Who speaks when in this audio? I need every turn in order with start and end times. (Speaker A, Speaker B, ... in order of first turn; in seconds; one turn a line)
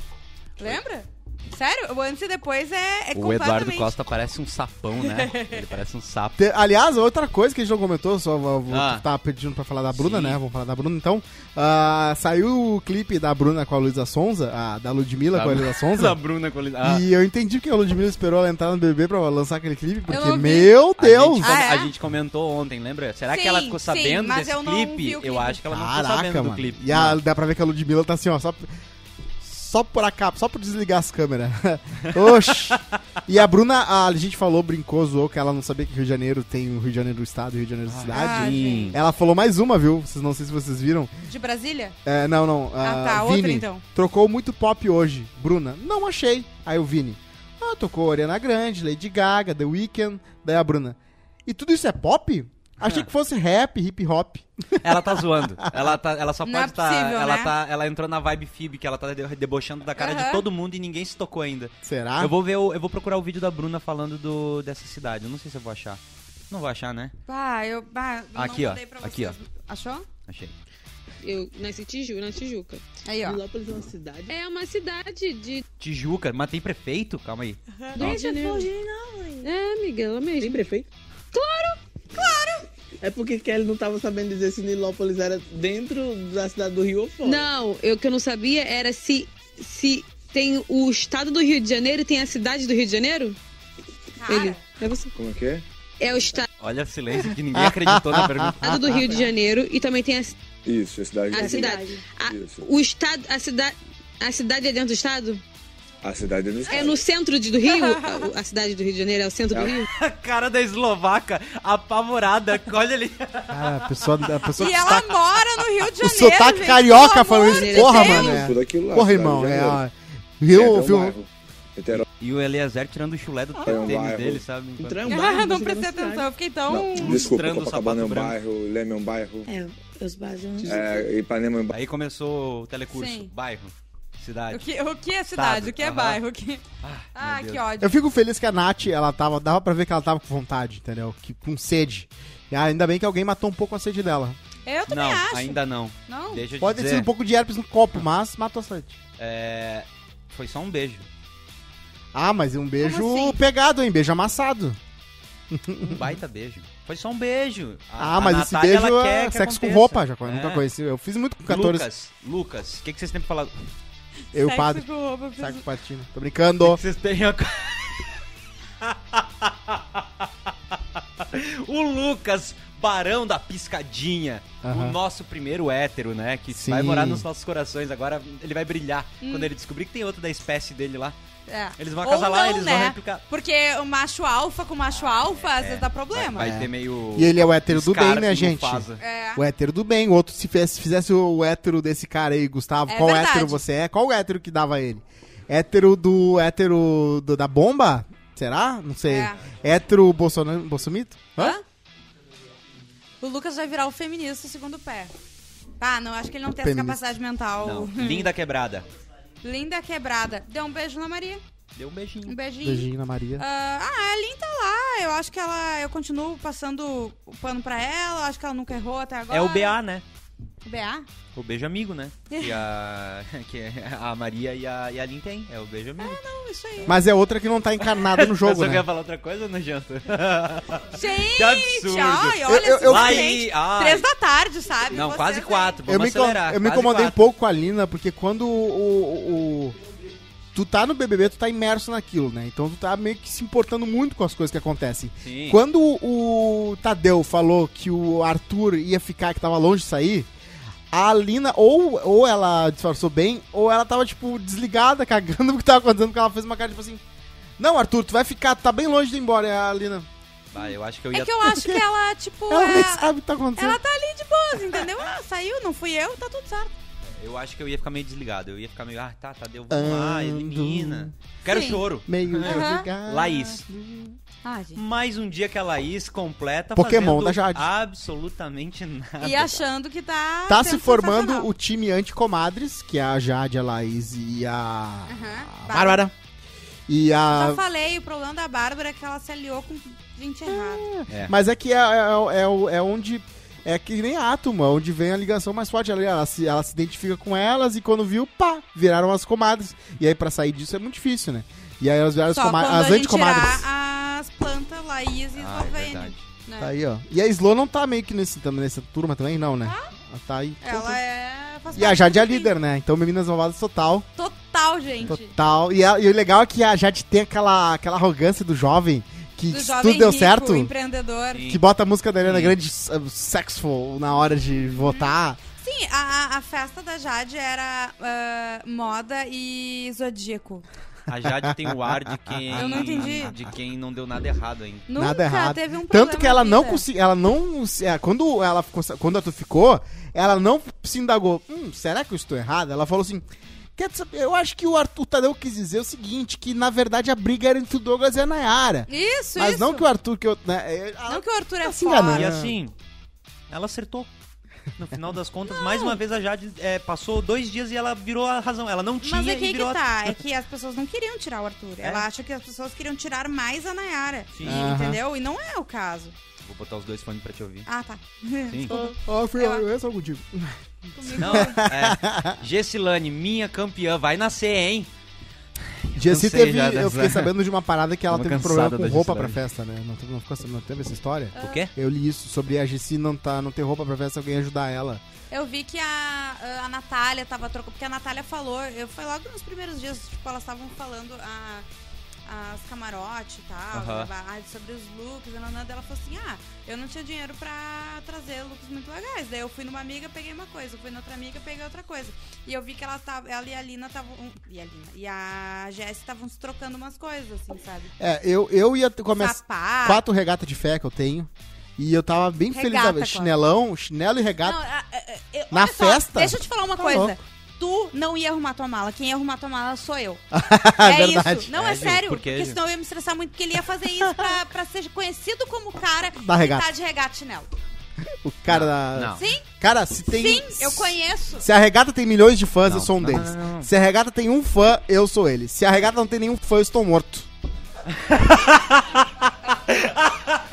Speaker A: 0.6-3.9
Speaker B: 3.1-6.4
Speaker A: 5.0-5.6
Speaker C: 6.4-16.2
Speaker B: 8.7-9.1
Speaker B: 9.9-10.4
Speaker B: 15.3-17.1
Speaker C: 16.8-21.5
Speaker A: 20.1-20.8
Speaker B: 21.0-27.2
Speaker A: 21.4-21.9
Speaker A: 23.3-25.6
Speaker C: 25.7-28.7
Speaker C: 29.4-41.1
Speaker B: 32.0-32.8
Speaker B: 37.9-39.0
Speaker A: 38.1-39.0
Speaker A: 41.3-42.0
Speaker C: 42.0-56.0
Speaker A: 42.8-43.8
Speaker B: 52.8-53.1
Speaker B: 54.8-67.2
Speaker A: 56.5-57.5
Speaker A: 60.0-60.5
Speaker C: 61.8-62.3
Speaker A: 67.3-70.1
Speaker B: 68.3-69.4
Speaker B: 70.3-70.5
Speaker D: 71.2-72.8
Speaker A: 73.0-73.4
Speaker E: 73.2-74.3
Speaker D: 74.3-75.6
Speaker B: 75.8-78.3
Speaker A: 77.8-78.5
Speaker D: 78.0-78.7
Speaker D: 79.4-80.7
Speaker E: 80.4-80.9
Speaker D: 81.3-81.8
Speaker A: 82.2-82.7
Speaker E: 83.0-87.5
Speaker D: 87.2-93.4
Speaker A: 94.2-94.6
Speaker D: 94.3-95.1
Speaker F: 95.1-95.6
Speaker D: 96.0-96.5
Speaker B: 96.6-99.3
Speaker C: 97.5-99.0
Speaker D: 98.6-100.4
Speaker F: 100.7-102.7
Speaker D: 101.3-105.4
Speaker E: 101.3-102.0
Speaker F: 106.0-107.0
Speaker D: 106.7-109.9
Speaker A: 107.7-108.3
Speaker F: 109.5-109.8
Speaker B: 109.9-113.9
Speaker C: 113.5-115.2
Speaker A: 114.6-118.4
Speaker C: 115.8-121.2
Speaker D: 117.5-118.5
Speaker F: 118.3-119.8
Speaker F: 120.5-122.0
Speaker B: 122.0-125.2
Speaker E: 123.7-123.9
Speaker F: 123.7-124.4
Speaker E: 124.8-126.3
Speaker A: 125.1-127.3
Speaker F: 126.7-129.5
Speaker B: 126.8-128.3
Speaker D: 129.5-130.8
Speaker E: 130.6-131.0
Speaker F: 130.7-131.8
Speaker B: 131.7-134.7
Speaker A: 132.9-133.3
Speaker A: 134.5-136.6
Speaker B: 135.3-136.2
Speaker B: 136.8-137.6
Speaker A: 137.2-137.9
Speaker C: 137.8-144.4
Speaker A: 144.7-146.4
Speaker B: 144.9-147.1
Speaker C: 146.6-149.0
Speaker B: 149.2-151.1
Speaker C: 152.1-154.8
Speaker A: 152.8-153.4
Speaker C: 155.5-156.1
Speaker B: 155.8-160.6
Speaker C: 158.0-161.9
Speaker B: 161.5-163.6
Speaker C: 164.3-164.9
Speaker A: 164.3-165.6
Speaker C: 165.4-166.8
Speaker B: 166.6-168.2
Speaker B: 168.8-181.2
Speaker C: 174.6-175.0
Speaker C: 176.5-177.3
Speaker A: 179.2-179.5
Speaker A: 181.5-186.5
Speaker B: 181.8-183.2
Speaker B: 185.2-189.0
Speaker C: 186.4-201.6
Speaker A: 189.0-189.4
Speaker A: 192.9-193.6
Speaker A: 199.1-199.4
Speaker A: 201.4-201.6
Speaker A: 203.2-205.1
Speaker A: 205.8-208.3
Speaker C: 206.6-207.1
Speaker B: 207.6-208.8
Speaker A: 209.4-211.4
Speaker B: 211.8-212.4
Speaker A: 212.3-219.8
Speaker C: 212.6-213.4
Speaker B: 219.3-220.0
Speaker A: 220.6-221.1
Speaker B: 221.3-226.2
Speaker A: 222.3-222.6
Speaker A: 226.0-227.0
Speaker C: 226.9-228.8
Speaker B: 227.8-234.1
Speaker A: 230.9-235.8
Speaker C: 232.4-233.4
Speaker B: 234.9-237.2
Speaker C: 235.9-239.8
Speaker C: 240.5-250.3
Speaker B: 245.2-245.6
Speaker C: 250.9-257.0
Speaker C: 257.6-260.1
Speaker B: 260.5-261.5
Speaker A: 260.6-266.8
Speaker C: 261.4-261.8
Speaker C: 262.5-263.8
Speaker B: 267.2-273.6
Speaker C: 269.7-271.1
Speaker A: 271.5-271.8
Speaker C: 272.1-274.2
Speaker A: 272.4-272.9
Speaker A: 274.4-274.8
Speaker B: 274.8-279.6
Speaker C: 276.7-277.7
Speaker A: 279.2-281.5
Speaker C: 280.5-286.1
Speaker A: 285.1-286.0
Speaker C: 286.9-287.6
Speaker A: 287.3-290.9
Speaker C: 290.5-303.7
Speaker B: 291.1-291.4
Speaker A: 302.3-306.7
Speaker B: 305.4-306.3
Speaker C: 306.6-311.0
Speaker A: 309.6-309.9
Speaker A: 310.6-312.5
Speaker C: 311.7-314.1
Speaker A: 314.2-315.3
Speaker C: 315.1-320.7
Speaker A: 319.5-321.4
Speaker B: 321.3-321.6
Speaker C: 321.4-325.4
Speaker B: 322.2-322.6
Speaker A: 324.6-330.6
Speaker B: 331.1-334.9
Speaker C: 331.2-333.2
Speaker A: 332.6-333.3
Speaker A: 334.9-336.8
Speaker C: 334.9-343.2
Speaker C: 343.8-352.6
Speaker A: 348.9-349.9
Speaker A: 351.1-352.3
Speaker B: 352.1-352.7
Speaker B: 353.5-354.1
Speaker B: 354.8-360.2
Speaker A: 355.5-356.0
Speaker A: 359.0-366.2
Speaker B: 364.3-364.7
Speaker C: 364.4-365.0
Speaker B: 366.4-367.7
Speaker A: 367.7-369.6
Speaker C: 368.7-372.4
Speaker A: 371.0-371.6
Speaker B: 371.2-374.9
Speaker B: 375.9-377.3
Speaker C: 376.0-385.0
Speaker B: 378.1-379.4
Speaker A: 381.4-381.7
Speaker B: 381.4-381.7
Speaker A: 385.3-391.7
Speaker A: 392.3-407.9
Speaker B: 393.7-394.1
Speaker C: 408.0-414.6
Speaker A: 409.2-410.0
Speaker A: 412.5-413.4
Speaker A: 414.4-427.5
Speaker C: 415.5-417.2
Speaker C: 420.3-421.5
Speaker B: 421.5-422.6
Speaker C: 426.2-426.7
Speaker C: 428.1-437.3
Speaker B: 428.5-429.2
Speaker A: 429.2-429.4
Speaker A: 430.1-431.5
Speaker B: 432.7-433.7
Speaker B: 437.9-440.4